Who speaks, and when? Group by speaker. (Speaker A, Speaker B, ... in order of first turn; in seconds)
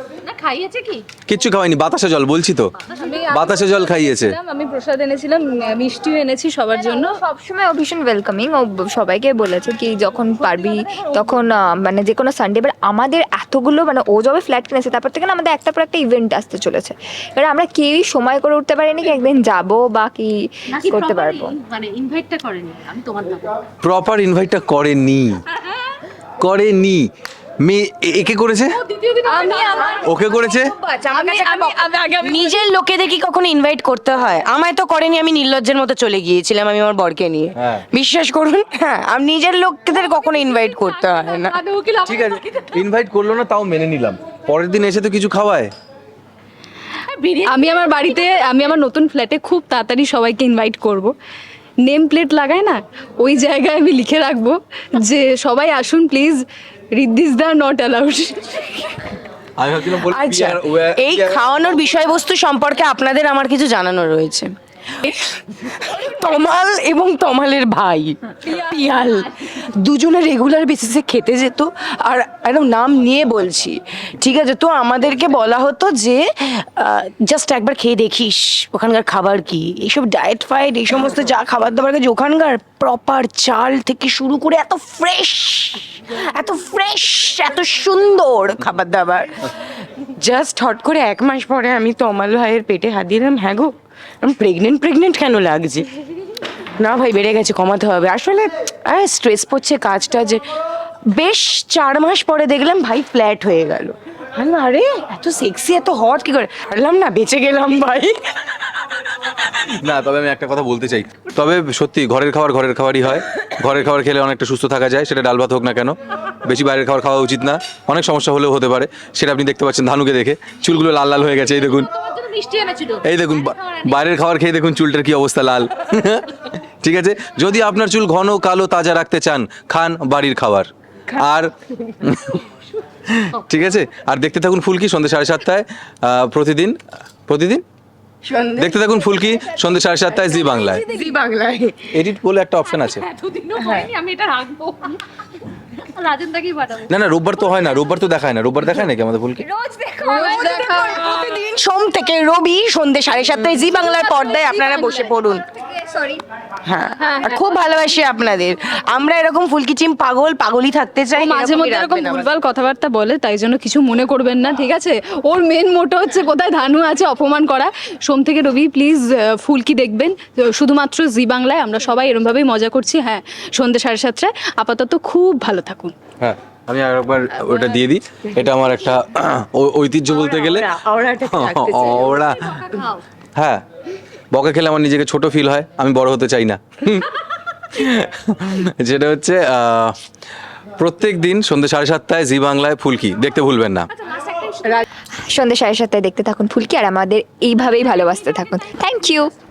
Speaker A: 0.2-1.1, 2.8-3.2, 20.7-23.5, 28.7-29.9, 41.4-42.7, 47.1-48.7, 121.5-124.1, 142.6-145.0, 145.8-146.9, 181.8-183.0, 194.1-194.8, 197.8-198.6
Speaker B: 1.2-2.7, 3.3-4.3, 23.8-25.4, 26.4-27.1, 27.6-28.8, 30.0-30.7, 37.5-37.8, 42.0-45.7, 59.6-62.2, 109.5-121.9, 123.0-132.4, 133.1-137.6, 138.6-140.8, 141.9-143.0, 146.9-149.4, 176.2-182.5, 183.3-183.6, 184.3-187.1, 187.7-190.0, 190.8-193.9
Speaker C: 3.0-7.2, 10.4-11.4, 29.4-30.1, 31.0-32.7, 39.9-42.2, 47.5-51.1, 51.8-56.4, 56.9-59.1, 68.5-69.1, 140.3-141.2, 150.0-151.4, 153.4-155.2, 157.0-157.8, 161.1-175.9
Speaker D: 6.8-21.5, 29.4-29.9, 139.0-140.2, 149.4-151.3, 154.9-156.2, 195.2-199.3
Speaker E: 31.1-31.7, 32.2-41.6, 60.1-95.9, 96.8-100.5, 101.1-108.9, 138.2-138.6, 140.9-141.9, 143.6-143.8, 150.2-155.4, 156.7-162.2, 180.6-181.9